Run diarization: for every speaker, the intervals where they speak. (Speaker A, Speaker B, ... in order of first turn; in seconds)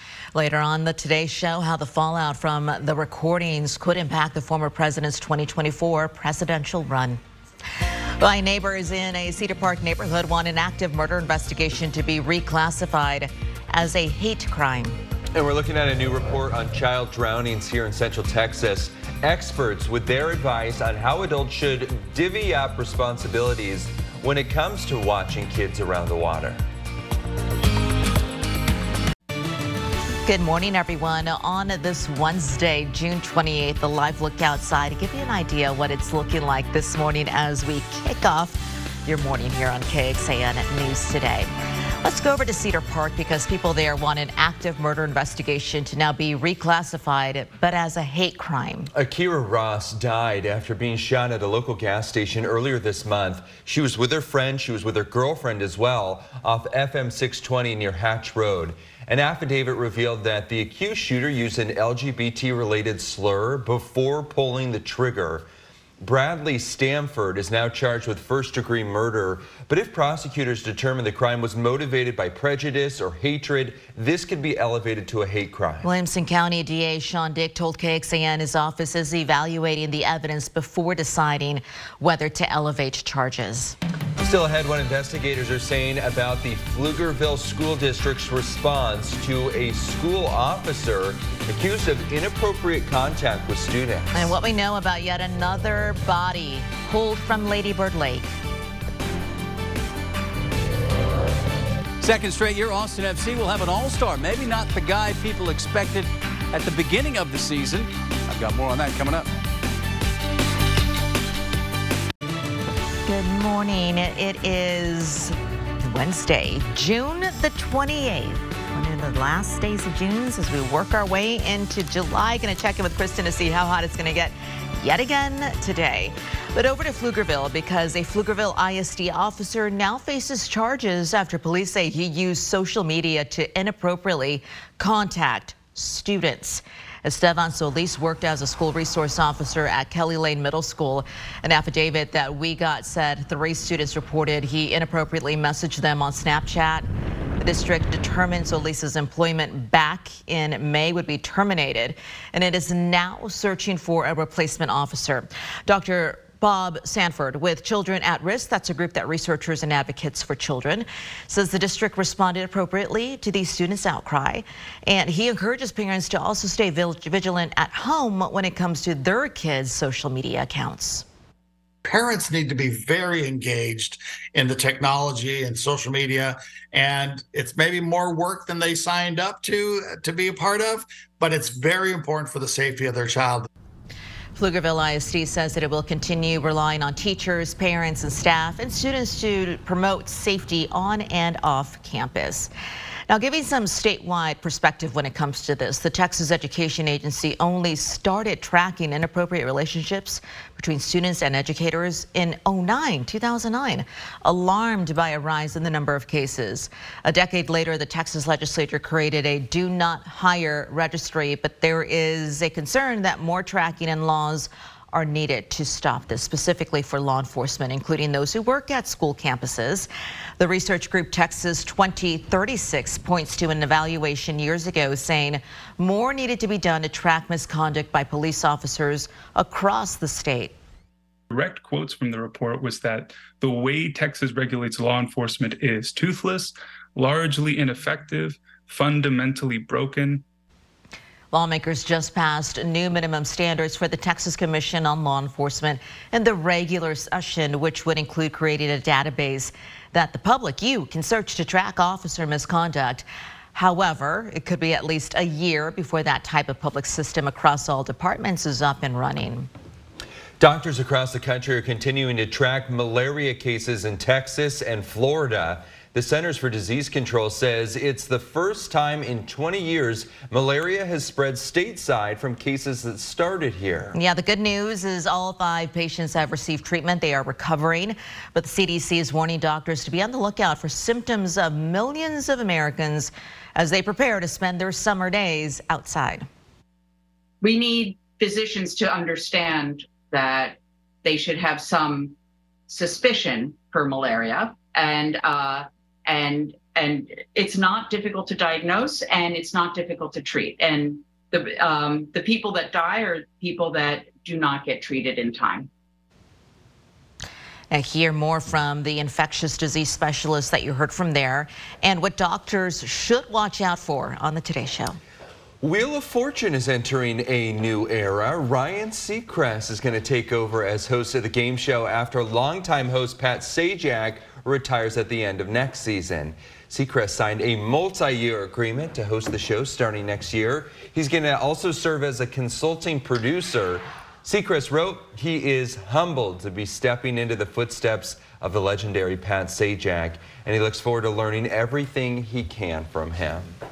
Speaker A: 0.3-7.2, 8.2-14.9, 30.2-41.5, 42.0-48.9, 75.8-83.8, 94.1-98.3, 113.1-146.9, 147.4-171.1, 184.3-192.5, 193.1-230.5, 241.3-259.5, 273.9-286.3, 307.7-315.0
Speaker B: 15.3-26.6, 48.9-65.5, 66.0-75.9, 84.2-94.3, 260.4-274.0, 315.6-343.6
Speaker C: 102.0-109.3
Speaker D: 171.8-183.5
Speaker E: 231.3-240.2
Speaker F: 287.4-292.1, 292.7-305.7